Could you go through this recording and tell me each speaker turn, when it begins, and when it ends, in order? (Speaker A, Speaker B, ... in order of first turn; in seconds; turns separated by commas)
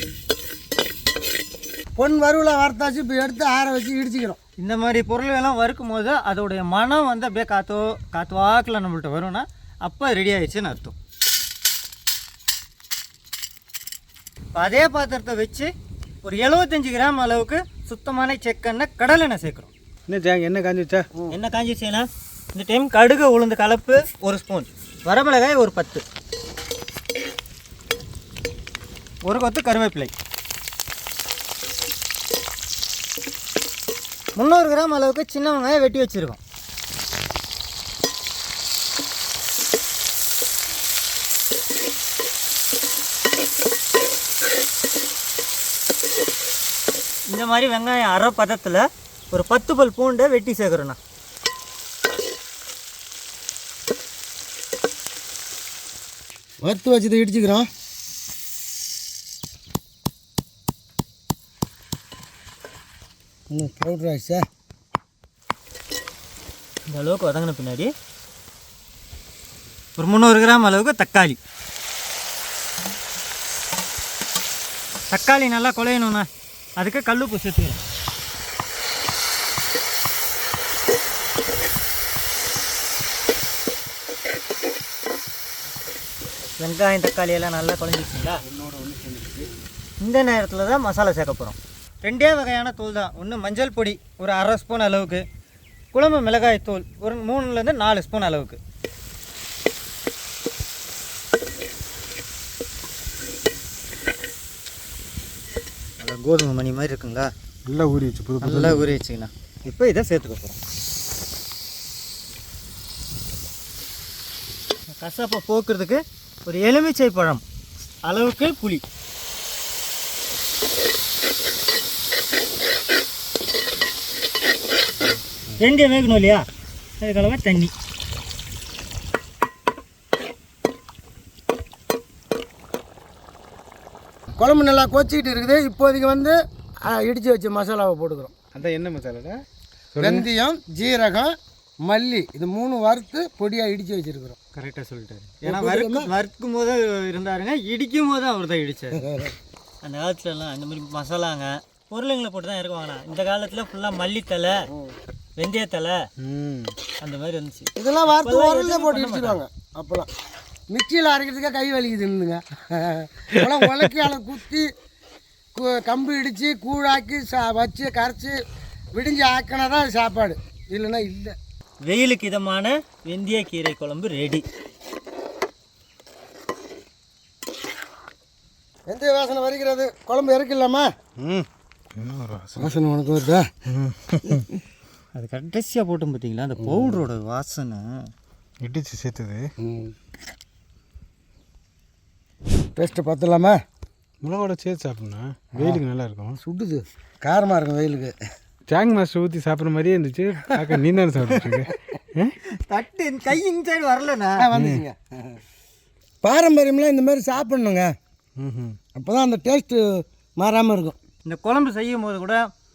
Speaker A: 2.0-4.4, Speaker B: 4.6-10.9, Speaker B: 14.6-15.7, Speaker B: 16.2-19.7, Speaker C: 20.1-21.1, Speaker B: 21.3-26.0, Speaker B: 29.2-30.1, Speaker B: 34.4-36.4, Speaker B: 47.3-51.0, Speaker A: 56.6-57.7, Speaker A: 63.5-64.5, Speaker B: 66.9-67.9, Speaker B: 70.0-71.4, Speaker B: 75.1-76.3, Speaker B: 76.8-77.8, Speaker B: 86.6-88.4, Speaker C: 88.5-89.5, Speaker B: 90.0-95.2, Speaker B: 95.9-98.6, Speaker B: 106.0-107.3, Speaker C: 107.7-108.9, Speaker B: 108.4-110.6, Speaker B: 115.0-117.4, Speaker B: 118.0-118.8, Speaker B: 125.6-126.5, Speaker B: 127.0-127.7, Speaker A: 134.4-138.3, Speaker C: 138.5-139.4, Speaker C: 139.9-140.3, Speaker A: 140.0-141.3, Speaker A: 141.8-144.4, Speaker B: 144.5-149.0, Speaker A: 145.5-146.1, Speaker A: 149.0-149.3, Speaker B: 149.8-154.7, Speaker B: 155.4-156.0, Speaker C: 156.2-156.7, Speaker B: 157.0-159.4, Speaker A: 157.8-160.1, Speaker A: 160.7-164.7, Speaker C: 163.4-163.9, Speaker A: 165.6-168.4, Speaker A: 168.9-171.3, Speaker B: 171.8-174.4, Speaker A: 178.9-180.9, Speaker C: 181.2-182.7, Speaker A: 182.6-183.4, Speaker C: 183.7-184.3, Speaker B: 185.2-187.8, Speaker C: 188.6-189.5, Speaker A: 189.6-189.9, Speaker A: 192.8-193.6, Speaker C: 194.2-196.4, Speaker A: 196.4-198.1, Speaker C: 198.7-202.3, Speaker B: 202.7-204.4, Speaker A: 204.4-205.4, Speaker C: 204.6-204.8, Speaker A: 206.2-207.9, Speaker C: 208.4-208.8, Speaker A: 208.9-211.0, Speaker B: 211.2-212.4